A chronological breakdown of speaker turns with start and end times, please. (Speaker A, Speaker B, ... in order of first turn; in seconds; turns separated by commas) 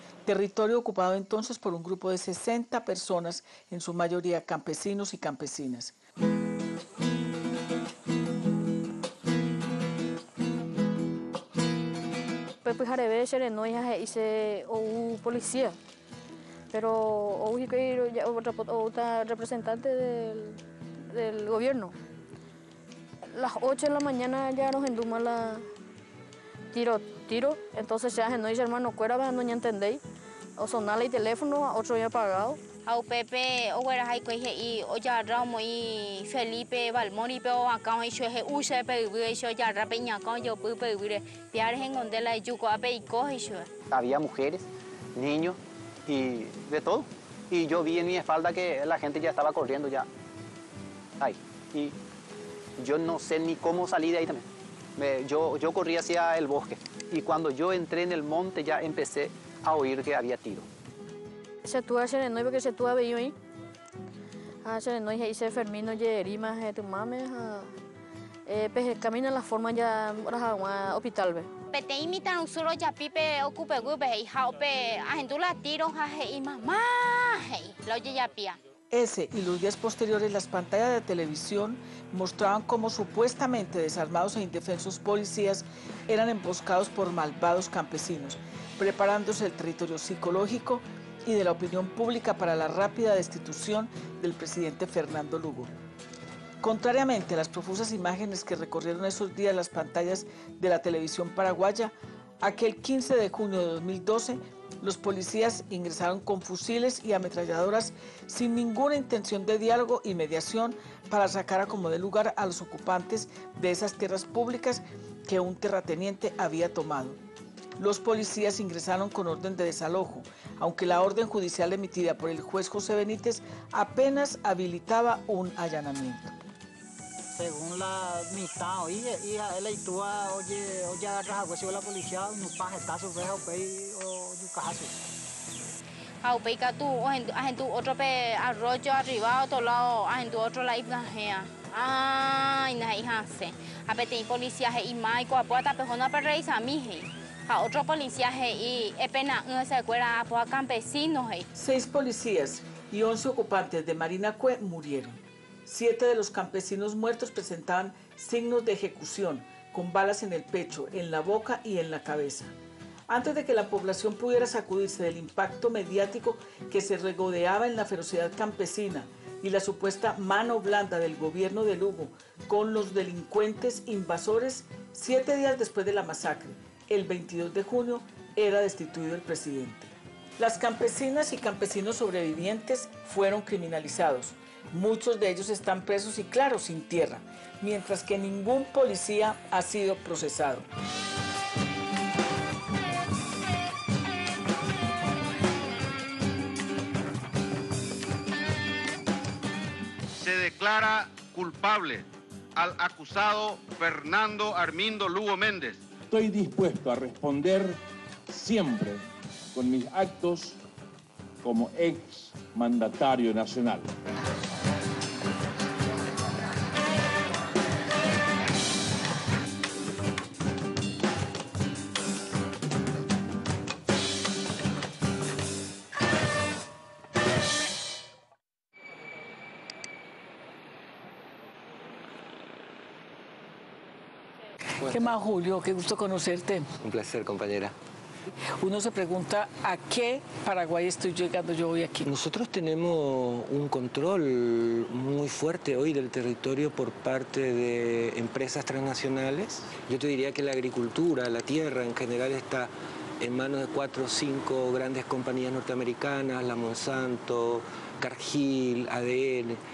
Speaker A: 0.3-6.0, Speaker B: 12.6-15.8, Speaker B: 16.7-21.9, Speaker B: 23.3-25.7, Speaker B: 26.7-30.0, Speaker B: 30.6-32.6, Speaker C: 32.9-43.7, Speaker D: 43.9-50.1, Speaker D: 51.2-52.0, Speaker D: 52.8-54.5, Speaker D: 55.0-60.7, Speaker B: 61.6-63.4, Speaker B: 64.6-67.7, Speaker B: 68.5-71.5, Speaker C: 71.7-78.6, Speaker A: 78.9-95.7, Speaker A: 96.6-117.2, Speaker A: 117.8-126.3, Speaker E: 127.3-135.0, Speaker C: 136.2-151.5, Speaker A: 151.6-162.5, Speaker A: 163.1-190.7, Speaker F: 200.2-205.8, Speaker G: 206.1-207.8, Speaker G: 208.3-209.0, Speaker G: 209.6-210.5, Speaker G: 211.4-213.9, Speaker A: 234.9-236.7, Speaker H: 236.8-237.7, Speaker A: 238.6-242.1, Speaker H: 242.0-259.6